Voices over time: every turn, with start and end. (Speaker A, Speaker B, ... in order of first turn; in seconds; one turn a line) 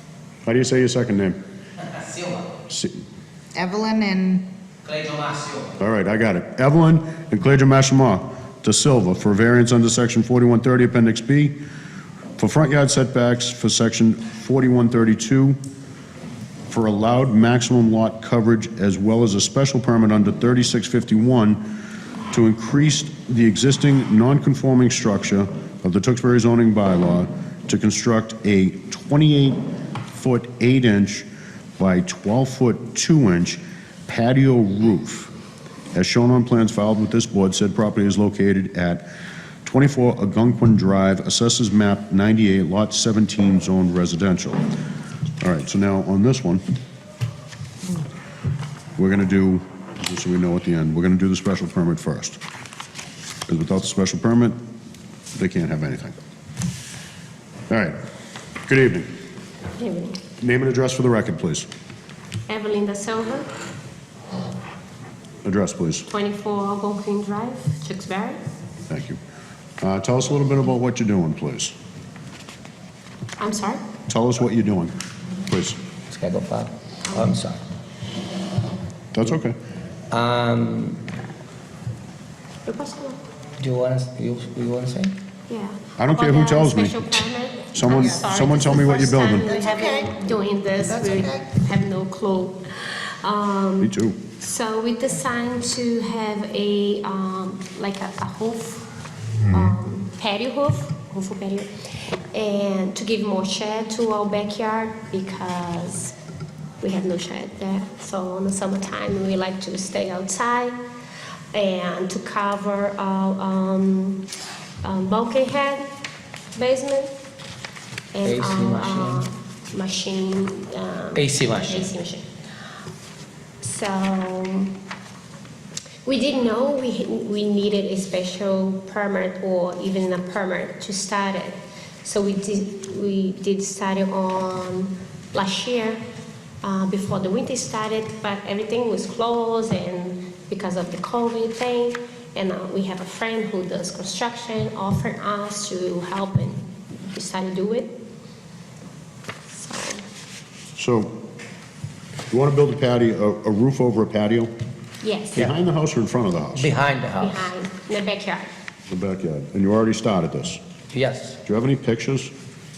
Speaker A: 0.4-1.4
Speaker B: 1.9-2.5
Speaker A: 2.7-2.9
Speaker C: 3.5-4.4
Speaker B: 4.8-5.8
Speaker A: 5.8-11.6
Speaker A: 12.4-15.6
Speaker A: 16.7-21.6
Speaker A: 22.3-31.3
Speaker A: 31.8-35.3
Speaker A: 35.9-39.1
Speaker A: 39.6-44.6
Speaker A: 45.4-46.6
Speaker A: 49.0-52.4
Speaker A: 53.5-54.6
Speaker A: 55.3-56.2
Speaker A: 57.7-57.9
Speaker A: 58.6-59.1
Speaker D: 59.8-60.2
Speaker A: 60.4-61.7
Speaker D: 62.5-63.5
Speaker A: 65.4-66.1
Speaker D: 66.1-68.4
Speaker A: 68.9-69.2
Speaker A: 69.8-71.7
Speaker D: 73.4-73.8
Speaker A: 74.1-74.9
Speaker A: 75.5-75.8
Speaker B: 76.1-77.6
Speaker D: 77.1-77.3
Speaker A: 79.1-79.5
Speaker B: 80.1-81.0
Speaker D: 82.6-83.2
Speaker B: 83.6-85.2
Speaker D: 85.5-98.9
Speaker A: 86.0-87.1
Speaker A: 87.7-89.5
Speaker C: 87.9-90.2
Speaker C: 90.8-91.5
Speaker A: 93.8-94.2
Speaker D: 99.5-101.7
Speaker D: 102.3-106.1
Speaker D: 106.8-110.8
Speaker D: 111.5-114.2
Speaker D: 114.8-115.8
Speaker D: 116.5-117.1
Speaker D: 118.1-122.2
Speaker B: 118.2-119.2
Speaker B: 121.1-121.9
Speaker D: 123.6-124.7
Speaker D: 126.0-136.0
Speaker D: 136.6-148.0
Speaker D: 149.5-150.0
Speaker A: 150.8-151.2
Speaker A: 152.3-154.5
Speaker D: 155.0-155.5
Speaker A: 155.3-156.7
Speaker B: 156.5-157.5
Speaker D: 157.2-158.5
Speaker A: 158.9-160.6
Speaker B: 160.9-161.4
Speaker A: 161.4-162.3